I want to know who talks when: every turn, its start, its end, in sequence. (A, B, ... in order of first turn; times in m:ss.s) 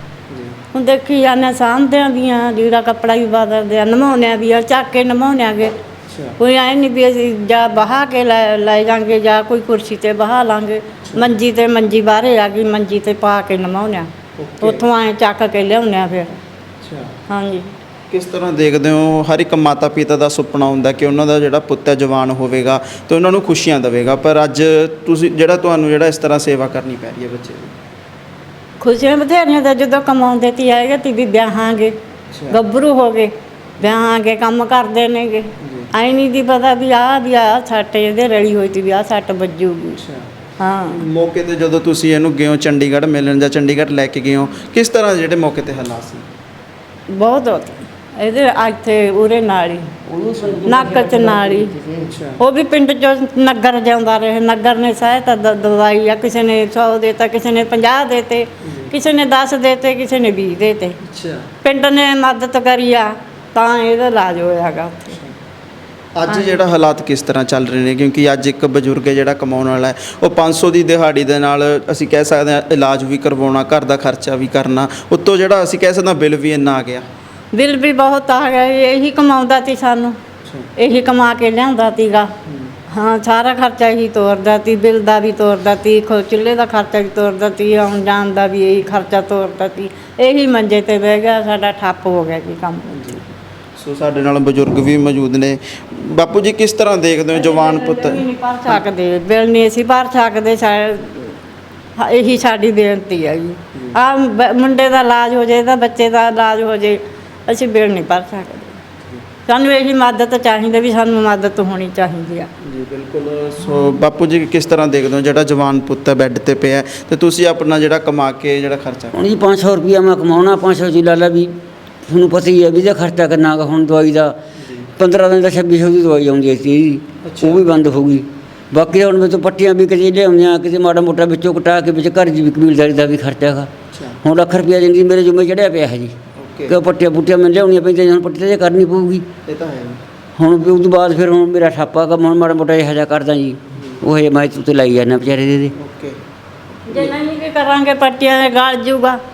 0:00.3-0:00.6 A
0:00.7-0:05.7 B
0:06.1-0:06.4 A
0:06.4-0:14.1 B
0:11.0-0:11.3 A
0:14.4-0:14.8 A
0:14.6-0:16.3 B
0:16.8-0:17.1 A
0:17.3-0:17.7 B
0:18.1-0:27.7 A
0:28.8-0:31.9 B
0:32.3-0:32.6 A
0:32.5-0:40.0 B
0:35.6-0:35.9 A
0:40.0-0:40.3 A
0:40.6-0:41.0 B
0:40.9-0:46.2 A
0:47.2-0:49.9 B
0:50.1-0:52.1 C
0:50.6-0:51.8 B
0:52.0-0:52.4 A
0:52.4-1:01.0 B
0:58.6-0:58.9 A
1:01.0-1:01.5 A
1:01.6-1:05.2 B
1:06.1-1:17.0 A
1:06.3-1:06.6 B
1:17.5-1:20.2 B
1:20.8-1:22.3 B
1:22.5-1:22.7 A
1:22.9-1:32.9 B
1:32.9-1:33.2 A
1:33.8-1:38.8 A
1:37.3-1:41.4 B
1:42.0-1:48.8 B
1:49.5-1:52.5 B
1:52.6-1:59.2 A
1:59.1-2:01.5 C
2:02.1-2:04.4 C
2:04.6-2:04.9 A
2:05.0-2:13.7 C
2:07.2-2:07.6 A
2:13.9-2:14.2 A
2:14.2-2:16.1 C
2:16.4-2:16.8 A
2:16.7-2:19.2 C
2:19.4-2:20.0 A
2:20.4-2:25.7 C
2:23.7-2:24.0 A
2:25.7-2:26.2 A
2:26.9-2:29.2 B